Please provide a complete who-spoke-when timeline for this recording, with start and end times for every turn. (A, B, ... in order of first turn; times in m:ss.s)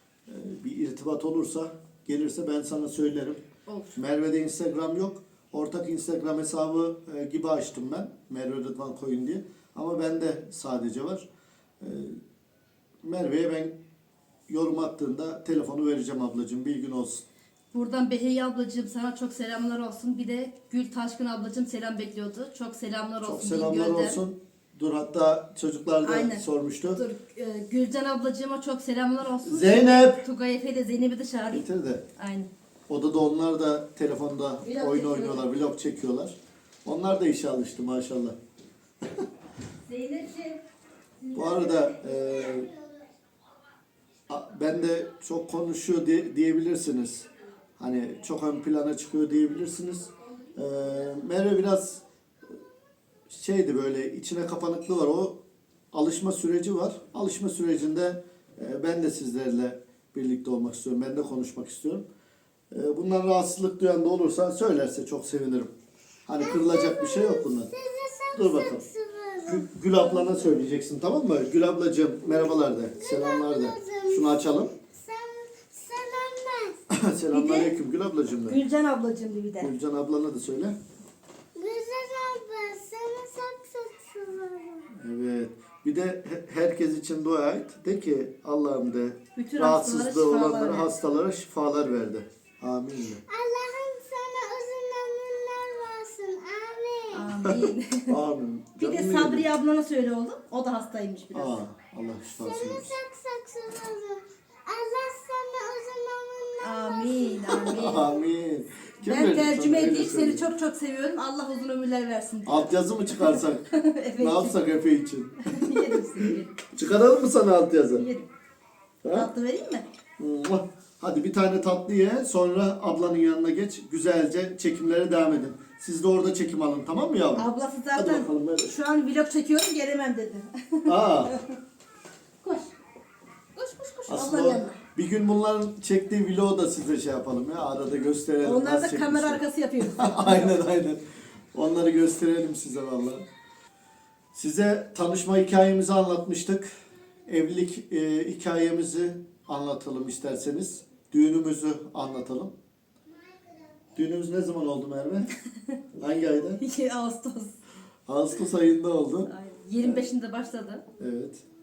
0:00.3-0:03.4 A
0:03.7-0:04.0 B
0:04.0-0:11.3 A
0:11.8-0:12.2 A
0:13.0-0:13.7 A
0:14.5-0:17.2 A
0:17.7-0:24.2 B
0:23.2-0:27.0 A
0:26.0-0:31.6 B
0:29.4-0:30.2 A
0:31.5-0:32.0 A
0:32.2-0:32.5 B
0:32.9-0:38.4 A
0:34.6-0:35.5 B
0:39.9-0:40.6 B
0:41.2-0:42.0 B
0:41.3-0:42.7 A
0:42.3-0:42.7 C
0:44.3-0:52.0 A
0:53.3-0:55.4 A
0:55.9-1:02.0 A
1:02.7-1:05.7 A
1:06.3-1:07.7 A
1:06.5-1:09.6 C
1:08.3-1:08.8 A
1:09.4-1:14.7 A
1:13.0-1:14.3 C
1:14.9-1:16.8 C
1:16.9-1:18.6 A
1:17.3-1:17.7 B
1:18.5-1:19.7 B
1:19.6-1:20.8 A
1:21.6-1:24.9 C
1:24.9-1:33.2 A
1:29.4-1:30.9 B
1:33.3-1:37.2 C
1:37.1-1:38.2 B
1:37.4-1:39.5 A
1:38.8-1:41.6 B
1:41.3-1:43.0 A
1:42.4-1:48.0 C
1:46.6-1:48.1 B
1:47.6-1:50.5 A
1:49.0-1:54.6 B
1:52.4-1:53.7 A
1:54.2-1:58.0 A
1:55.4-1:56.6 B
1:58.0-1:58.3 B
1:59.0-1:59.3 A
1:59.1-1:59.9 B
2:00.2-2:08.7 A
2:07.4-2:11.5 B
2:10.9-2:11.4 A
2:12.4-2:12.7 B
2:13.6-2:14.8 B
2:14.1-2:21.0 A
2:18.4-2:20.6 B
2:21.5-2:23.2 A
2:24.3-2:26.7 A
2:27.3-2:32.5 A
2:34.0-2:35.3 A
2:36.0-2:36.6 A
2:36.6-2:37.6 B
2:38.1-2:40.1 A
2:39.3-2:40.8 B
2:41.0-2:41.4 A